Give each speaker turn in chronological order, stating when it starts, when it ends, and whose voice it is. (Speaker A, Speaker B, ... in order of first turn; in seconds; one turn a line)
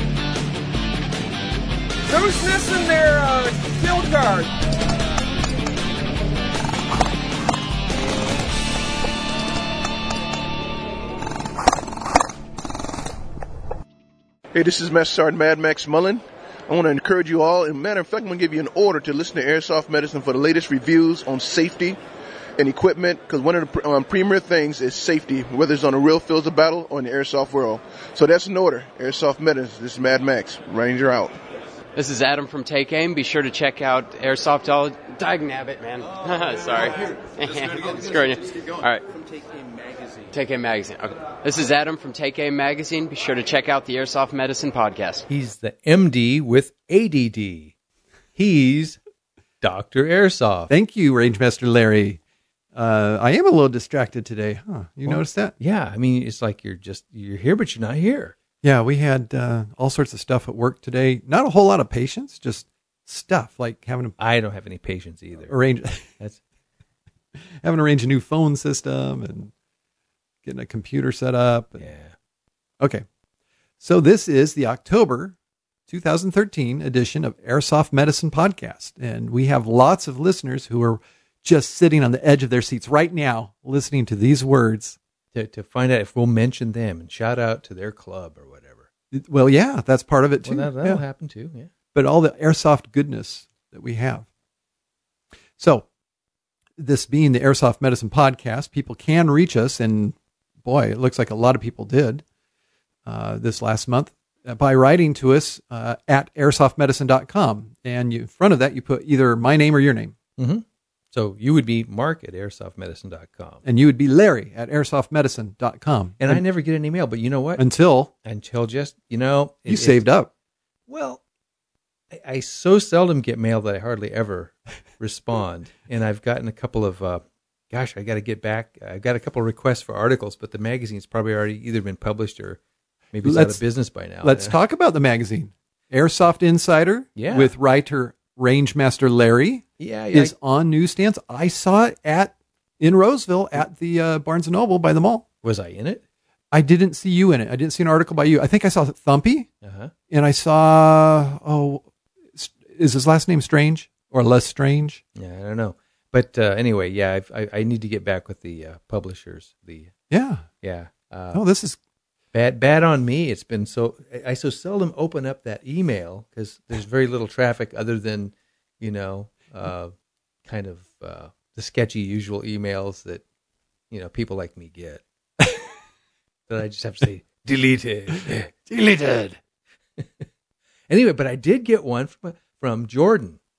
Speaker A: 2.1-4.5
Speaker B: 14.5-22.0
Speaker B: 22.6-31.3
Speaker C: 31.9-39.1
Speaker C: 40.3-45.3
Speaker D: 45.3-47.8
Speaker D: 48.4-49.0
Speaker D: 49.6-50.7
Speaker E: 50.7-52.2
Speaker E: 52.8-55.5
Speaker D: 55.1-58.4
Speaker E: 58.6-64.2
Speaker D: 64.2-65.5
Speaker E: 65.5-66.1
Speaker E: 67.4-69.5
Speaker E: 70.5-71.9
Speaker D: 71.8-72.2
Speaker E: 72.8-73.0
Speaker E: 73.8-75.4
Speaker E: 75.9-85.0
Speaker D: 85.3-88.9
Speaker E: 89.1-91.0
Speaker D: 90.4-91.7
Speaker E: 91.9-94.3
Speaker E: 95.6-95.9
Speaker E: 96.8-102.2
Speaker E: 103.1-110.2
Speaker D: 110.4-113.6
Speaker E: 113.6-116.4
Speaker D: 116.2-117.7
Speaker E: 117.6-118.1
Speaker D: 118.2-120.0
Speaker E: 119.7-120.3
Speaker D: 120.9-121.2
Speaker D: 122.1-132.6
Speaker D: 133.1-134.6
Speaker E: 133.2-133.6
Speaker E: 134.2-145.2
Speaker D: 137.2-137.5
Speaker D: 139.8-140.3
Speaker D: 145.4-146.0
Speaker E: 146.5-149.5
Speaker D: 149.6-149.9
Speaker E: 150.1-151.8
Speaker E: 152.4-155.0
Speaker D: 155.2-159.9
Speaker E: 160.1-160.5
Speaker D: 160.6-161.4
Speaker E: 161.3-161.8
Speaker D: 162.3-169.9
Speaker D: 170.5-173.2
Speaker D: 173.9-175.0
Speaker D: 176.5-178.7
Speaker E: 178.7-179.4
Speaker D: 180.0-180.3
Speaker D: 180.9-183.4